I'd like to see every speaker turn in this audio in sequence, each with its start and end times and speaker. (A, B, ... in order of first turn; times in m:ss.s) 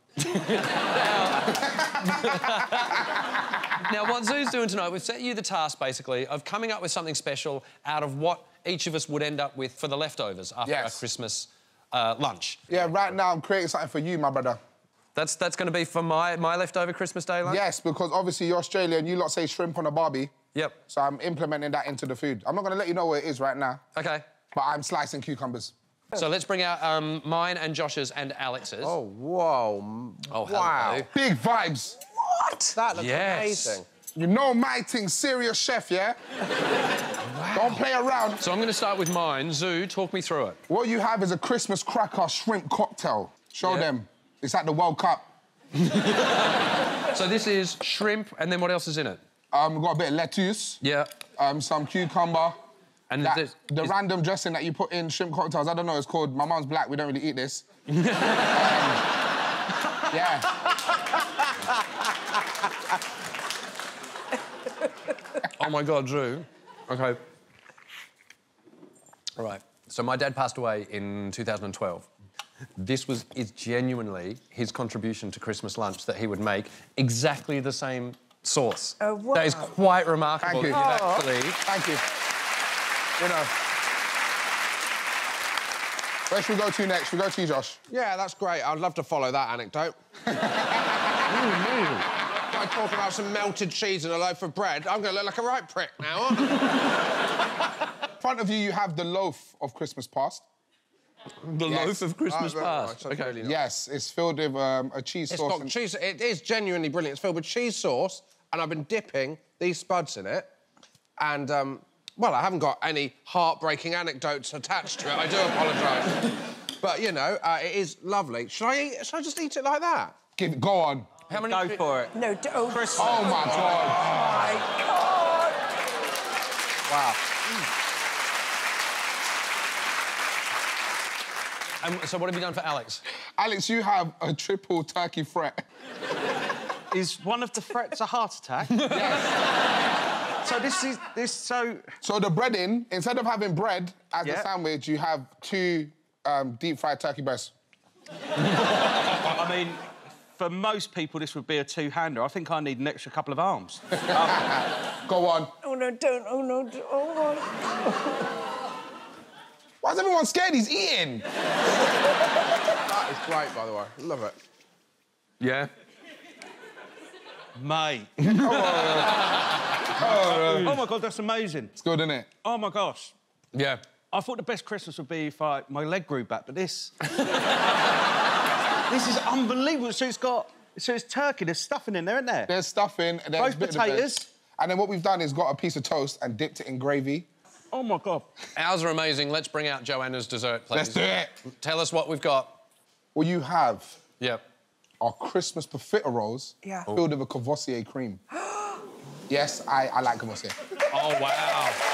0:00.2-0:03.2 A
0:02.3-0:02.6 B
0:03.7-0:12.9 A
0:10.6-0:11.0 B
0:12.7-0:14.6 B
0:15.2-0:17.6 A
0:17.4-0:20.3 B
0:20.9-0:23.8 B
0:24.0-0:24.2 A
0:24.5-0:25.7 B
0:26.1-0:29.0 A
0:28.8-0:31.1 C
0:30.3-0:31.1 A
0:31.1-0:32.0 B
0:32.5-0:33.8 A
0:32.8-0:33.9 C
0:34.2-0:36.2 B
0:37.4-0:37.7 A
0:37.5-0:38.4 B
0:38.4-0:40.6 A
0:40.7-0:45.3 B
0:43.6-0:43.9 A
0:45.8-0:49.2 A
0:49.5-0:50.8 B
0:50.8-0:51.2 A
0:51.4-0:52.6 B
0:53.1-0:53.9 A
0:53.2-0:57.6 B
0:57.9-0:58.6 A
0:58.4-0:59.0 B
1:00.1-1:00.5 B
1:05.4-1:07.2 A
1:09.4-1:12.1 A
1:12.8-1:21.6 A
1:19.0-1:19.7 D
1:20.4-1:20.8 B
1:20.8-1:21.2 D
1:21.6-1:22.0 B
1:23.2-1:23.5 B
1:26.3-1:27.8 B
1:27.9-1:30.0 C
1:30.3-1:31.2 B
1:31.3-1:32.1 A
1:32.5-1:36.5 C
1:38.2-1:40.5 B
1:41.4-1:43.4 A
1:41.7-1:43.6 C
1:43.4-1:45.7 B
1:45.3-1:50.5 C
1:51.2-2:00.2 C
2:00.4-2:01.1 B
2:01.3-2:02.1 A
2:01.3-2:02.2 E
2:02.1-2:05.6 D
2:02.7-2:04.0 E
2:03.0-2:04.6 B
2:06.9-2:07.2 B
2:11.8-2:13.0 A
2:13.4-2:15.6 B
2:16.9-2:18.8 E
2:18.8-2:19.4 B
2:20.4-2:21.9 E
2:22.0-2:27.5 B
2:24.2-2:24.5 E
2:29.0-2:34.5 E
2:34.0-2:35.5 B
2:35.6-2:37.5 D
2:39.8-2:41.2 B
2:42.9-2:44.4 C
2:45.4-2:45.7 A
2:47.6-2:48.5 E
2:48.2-2:49.2 B
2:50.0-2:50.8 B
2:50.0-2:51.7 E
2:51.8-2:52.3 B
2:52.4-2:53.1 E
2:53.5-2:53.8 A
2:54.1-2:56.9 E
2:58.9-3:02.5 E
3:02.5-3:07.3 B
3:03.4-3:04.3 E
3:07.7-3:08.3 E
3:08.6-3:12.6 A
3:10.7-3:11.3 B
3:13.2-3:14.0 B
3:15.0-3:18.2 B
3:18.4-3:18.8 D
3:19.3-3:20.6 B
3:20.9-3:21.8 A